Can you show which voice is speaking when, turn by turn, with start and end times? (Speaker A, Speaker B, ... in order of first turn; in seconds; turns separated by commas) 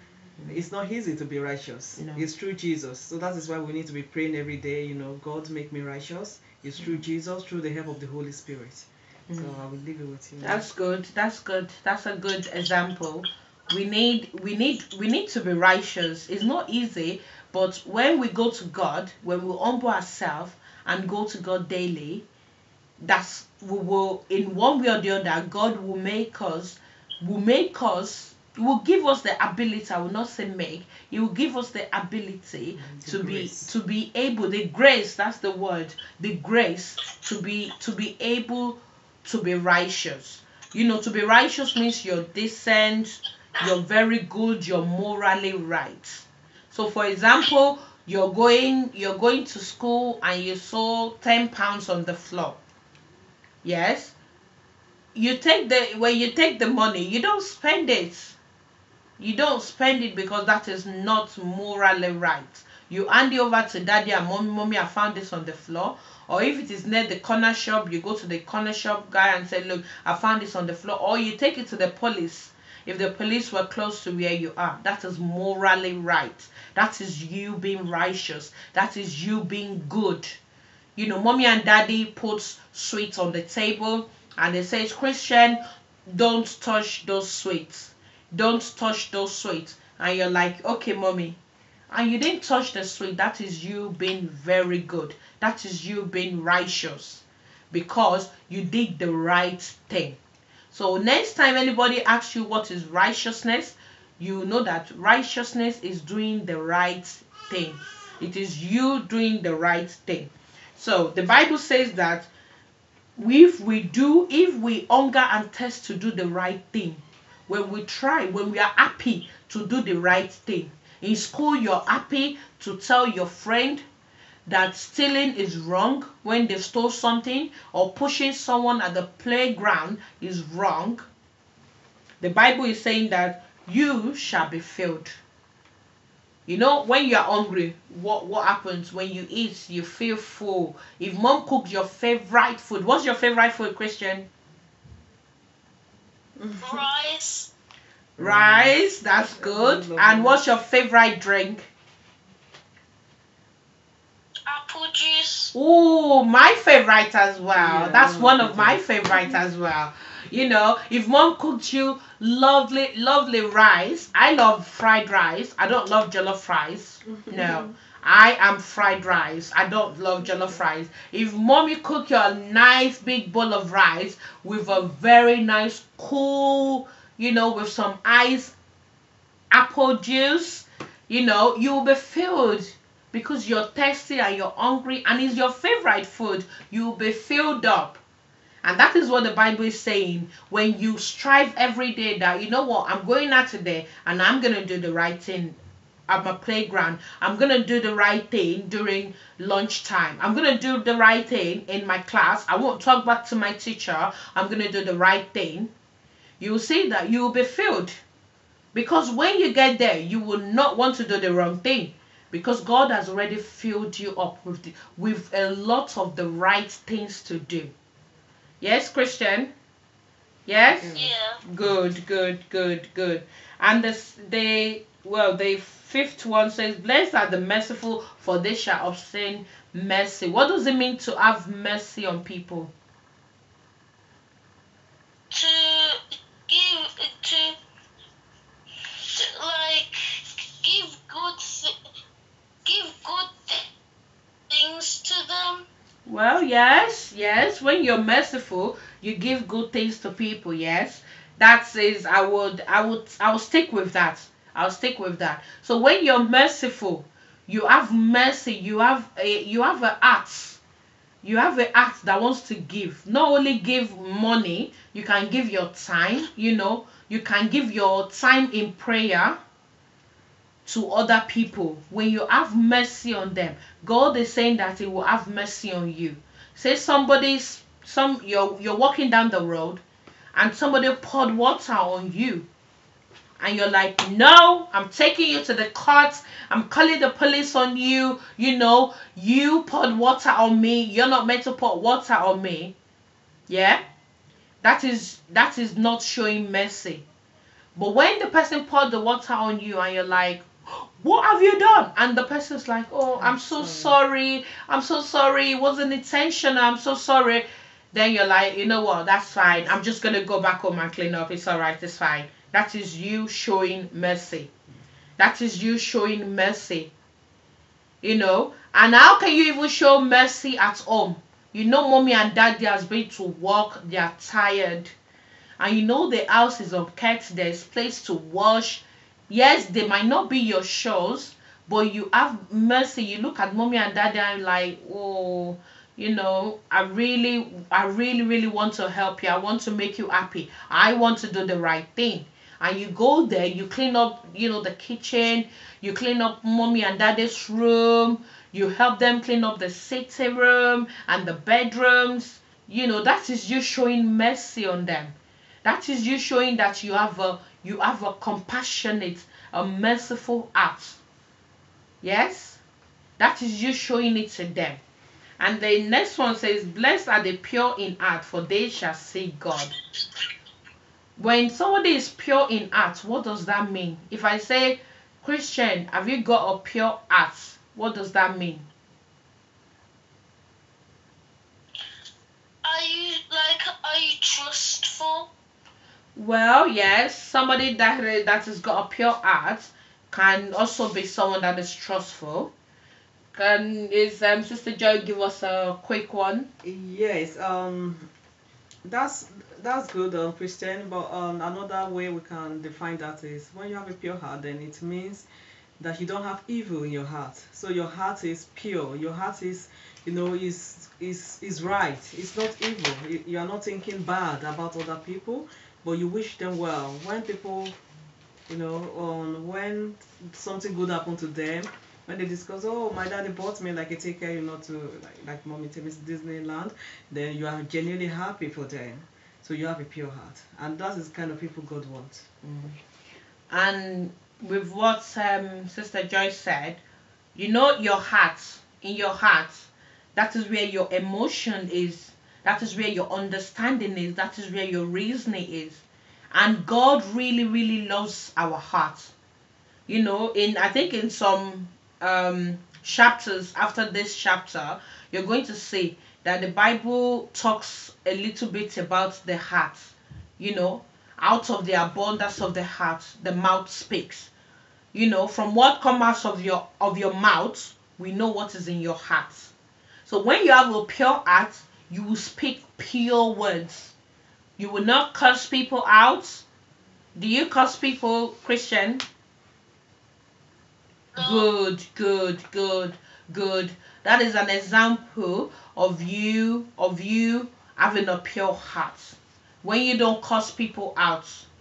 Speaker A: 0.5-10.6, Speaker B: 2.0-2.3, Speaker B: 9.3-9.5, Speaker B: 10.4-22.2, Speaker B: 23.0-52.6, Speaker A: 32.8-33.7, Speaker B: 53.6-54.1, Speaker B: 55.1-58.4, Speaker B: 59.2-80.4, Speaker B: 81.0-91.4, Speaker B: 91.9-100.2, Speaker B: 100.7-112.3, Speaker B: 113.2-123.8, Speaker B: 124.5-131.1, Speaker B: 132.2-135.2, Speaker B: 136.5-144.3, Speaker A: 146.4-146.9, Speaker C: 146.6-147.5, Speaker A: 148.2-150.4, Speaker B: 148.2-151.7, Speaker C: 154.5-155.5, Speaker B: 155.5-178.6, Speaker A: 157.6-159.4, Speaker A: 167.1-167.8, Speaker B: 179.5-188.0, Speaker B: 188.6-205.7, Speaker B: 206.4-208.0, Speaker B: 208.7-217.7, Speaker B: 218.6-219.5, Speaker B: 220.5-232.7, Speaker C: 220.9-221.4, Speaker C: 235.3-237.6, Speaker C: 238.9-241.7, Speaker C: 242.7-243.7, Speaker C: 244.5-245.7, Speaker B: 246.1-260.6, Speaker B: 261.2-269.4, Speaker B: 270.7-279.8, Speaker B: 280.4-282.5, Speaker B: 283.4-292.7, Speaker B: 293.5-293.8, Speaker B: 294.6-297.0, Speaker B: 297.8-314.5, Speaker A: 303.1-303.9, Speaker B: 315.2-316.9, Speaker B: 318.0-324.9, Speaker B: 325.6-361.0, Speaker B: 362.0-362.6, Speaker B: 363.2-364.8, Speaker B: 365.4-369.8, Speaker B: 371.2-378.7, Speaker C: 382.6-385.3, Speaker B: 386.2-392.5, Speaker B: 393.3-396.5, Speaker A: 396.6-398.1, Speaker A: 398.9-405.3, Speaker A: 405.8-417.8, Speaker A: 418.5-432.3, Speaker B: 432.4-432.8, Speaker B: 433.5-436.8, Speaker B: 437.4-449.1, Speaker B: 449.9-464.3, Speaker B: 464.9-469.5, Speaker B: 470.1-473.9, Speaker B: 474.6-476.4, Speaker B: 477.1-479.1, Speaker C: 481.1-481.5, Speaker B: 481.2-491.5